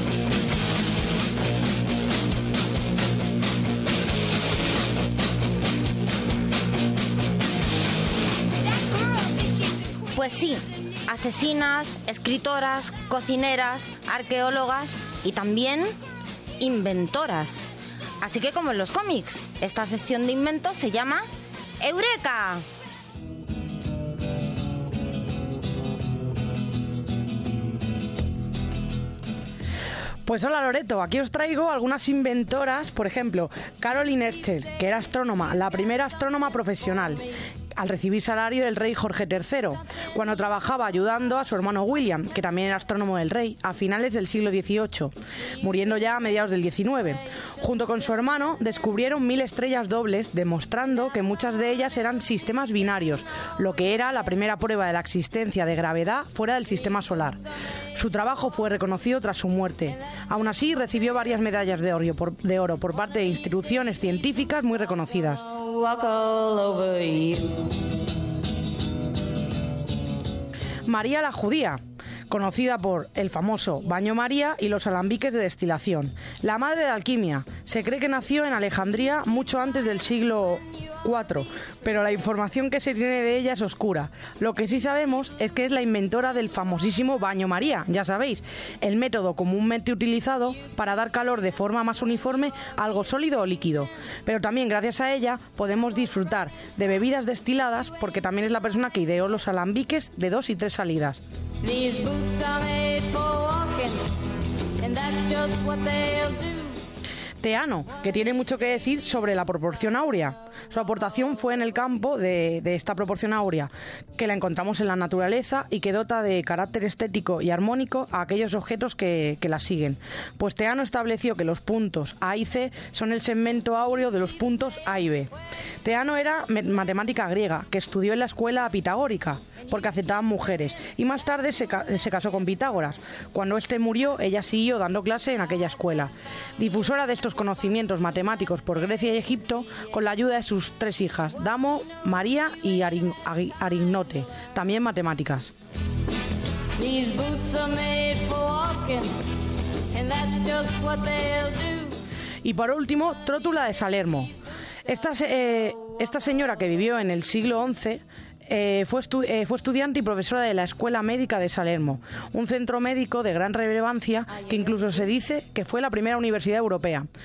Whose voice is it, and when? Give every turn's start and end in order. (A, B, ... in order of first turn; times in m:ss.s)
0:10.1-0:15.9 A
0:16.6-0:17.6 A
0:18.2-0:21.2 A
0:21.8-0:22.6 A
0:30.2-0:37.2 B
0:37.7-0:57.4 B
0:57.9-1:05.4 B
1:05.5-1:07.7 C
1:10.9-1:41.2 B
1:41.6-1:44.0 C
1:44.8-1:46.8 C
1:47.4-2:05.3 B
2:05.8-2:25.5 B
2:26.8-2:29.1 C
2:29.9-2:32.0 C
2:32.4-2:34.3 B
2:34.9-2:47.1 B